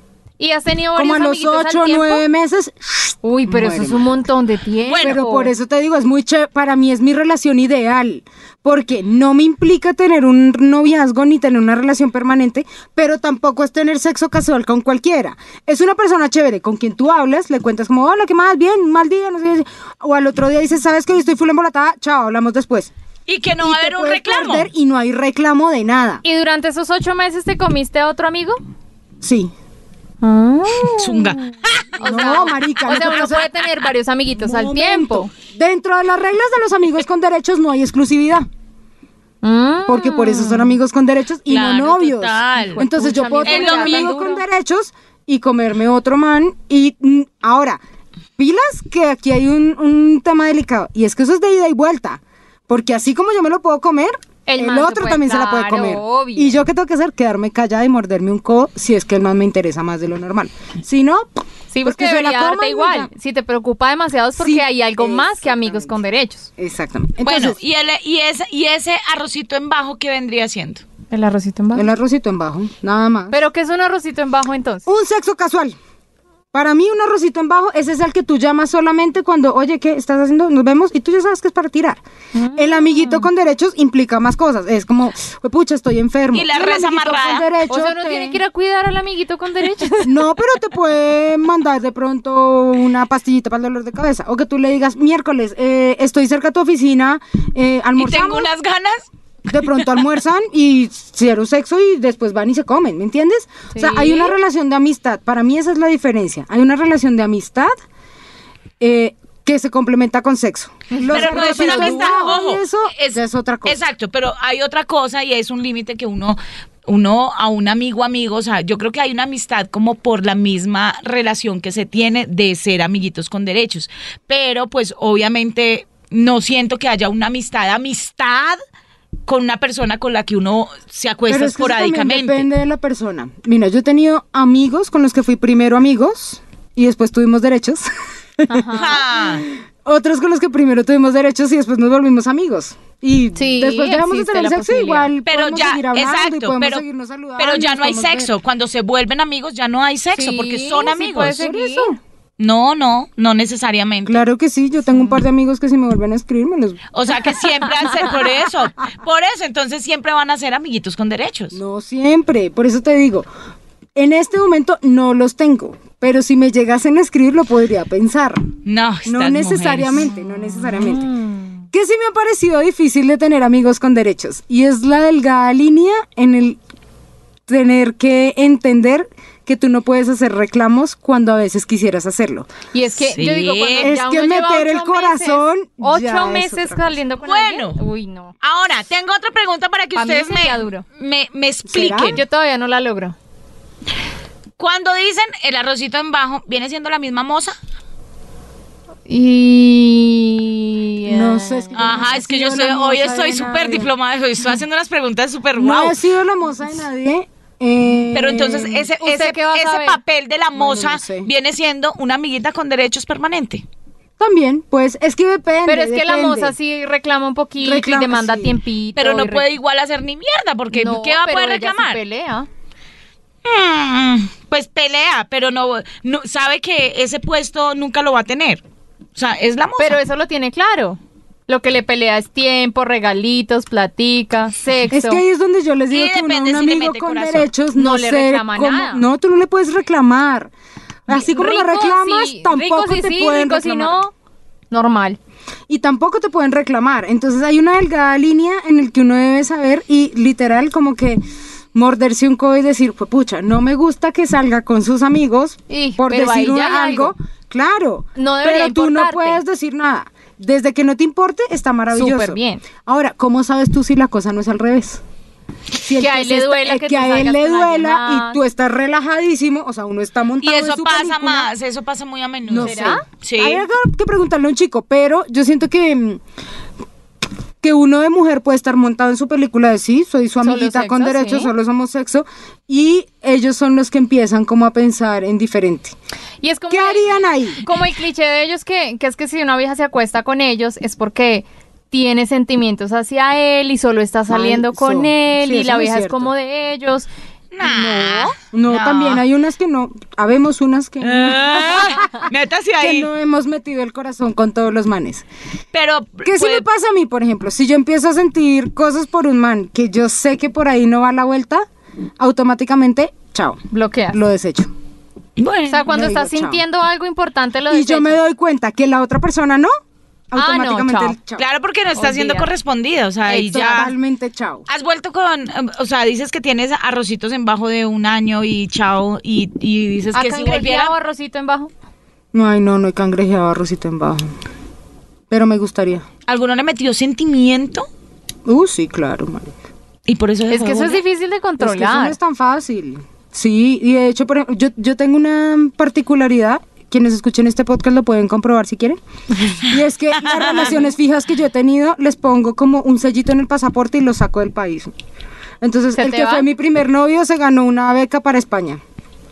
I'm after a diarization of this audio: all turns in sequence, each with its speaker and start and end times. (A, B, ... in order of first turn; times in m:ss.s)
0:00.4-0:02.2 A
0:01.0-0:04.2 B
0:03.2-0:05.5 A
0:04.9-0:05.2 C
0:05.0-0:22.9 B
0:23.3-0:24.7 C
0:23.6-0:26.2 B
0:26.2-0:28.6 A
0:29.2-0:29.5 B
0:30.2-0:31.4 A
0:31.0-0:33.9 C
0:32.0-0:35.3 A
0:32.0-0:33.5 B
0:34.4-0:38.5 B
0:39.4-0:40.8 A
0:39.9-0:47.8 B
0:41.5-0:42.8 C
0:42.7-0:44.4 A
0:43.4-0:44.2 C
0:48.4-1:03.1 B
0:54.5-0:56.6 A
1:01.7-1:06.5 A
1:04.4-1:06.0 B
1:06.6-1:07.6 B
1:07.2-1:10.8 C
1:11.1-1:11.9 A
1:11.7-1:13.4 B
1:13.3-1:14.9 A
1:14.9-1:15.8 B
1:16.5-1:22.0 B
1:22.4-1:23.3 A
1:22.6-1:28.4 B
1:26.3-1:27.5 C
1:27.7-1:30.4 A
1:30.0-1:38.5 B
1:38.0-1:40.1 C
1:39.5-1:47.7 B
1:43.7-1:44.4 A
1:48.8-1:53.8 B
1:50.9-1:52.4 A
1:51.1-2:08.6 C
2:09.3-2:12.5 C
2:11.3-2:28.3 B
2:18.5-2:19.0 A
2:18.7-2:19.4 C
2:23.4-2:25.1 A
2:25.3-2:26.8 C
2:27.4-2:31.4 C
2:30.1-2:31.9 A
2:31.2-2:32.0 B
2:32.4-2:34.2 C
2:34.0-2:36.9 B
2:36.9-2:41.6 C
2:41.5-2:43.3 B
2:44.0-2:48.5 B
2:48.6-2:50.1 C
2:49.1-2:51.1 B
2:50.5-2:51.6 A
2:51.7-2:56.6 B
2:57.5-3:02.5 B
3:02.7-3:08.3 A
3:03.0-3:03.9 C
3:03.8-3:06.9 B
3:07.2-3:07.8 C
3:08.4-3:12.2 C
3:10.0-3:10.8 A
3:11.7-3:12.2 B
3:12.0-3:13.2 A
3:14.6-3:17.6 C
3:19.1-3:22.0 A
3:21.1-3:23.9 B
3:21.7-3:26.0 C
3:25.6-3:28.9 B
3:28.1-3:33.6 C
3:29.0-3:30.0 A
3:30.6-3:31.3 B
3:34.2-3:36.6 B
3:35.7-3:39.4 A
3:37.6-3:38.6 B
3:39.0-3:42.0 C
3:40.7-3:42.5 A
3:43.4-3:48.6 C
3:49.2-3:50.0 C
3:49.8-3:55.2 A
3:54.9-4:00.5 B
3:55.9-3:57.5 C
3:57.8-3:59.0 A
4:01.1-4:04.0 B
4:01.1-4:04.1 A
4:04.7-4:05.2 A
4:05.7-4:11.2 B
4:11.7-4:25.0 B
4:15.7-4:17.1 A
4:18.2-4:19.4 A
4:21.9-4:22.6 A
4:25.8-4:31.5 B
4:26.0-4:28.4 A
4:30.4-4:33.6 C
4:32.5-4:36.2 B
4:32.6-4:33.0 A
4:37.6-4:46.0 B
4:40.4-4:41.5 A
4:46.4-4:57.1 A
4:46.7-4:47.6 B
4:54.3-4:56.3 B
4:57.5-4:59.2 C
4:57.6-4:58.3 A
4:58.5-5:02.1 B
5:01.0-5:03.1 C
5:02.8-5:05.3 B
5:05.7-5:06.6 C
5:06.2-5:11.7 B
5:12.2-5:14.7 B
5:13.7-5:14.2 A
5:15.4-5:15.9 C
5:15.7-5:18.2 A
5:15.9-5:16.6 B
5:17.7-5:19.7 B
5:20.3-5:21.4 B
5:20.4-5:21.2 A
5:21.4-5:23.9 C
5:22.0-5:22.5 A
5:23.3-5:24.7 B
5:24.7-5:30.9 C
5:30.1-5:31.7 A
5:32.3-5:34.3 B
5:35.3-5:36.1 B
5:36.3-5:37.9 C
5:38.5-5:39.5 B
5:40.1-5:41.0 C
5:40.5-5:42.2 A
5:41.6-5:49.0 B
5:49.6-5:54.9 B
5:50.4-5:50.7 C
5:55.6-5:58.8 B
5:56.0-5:56.5 A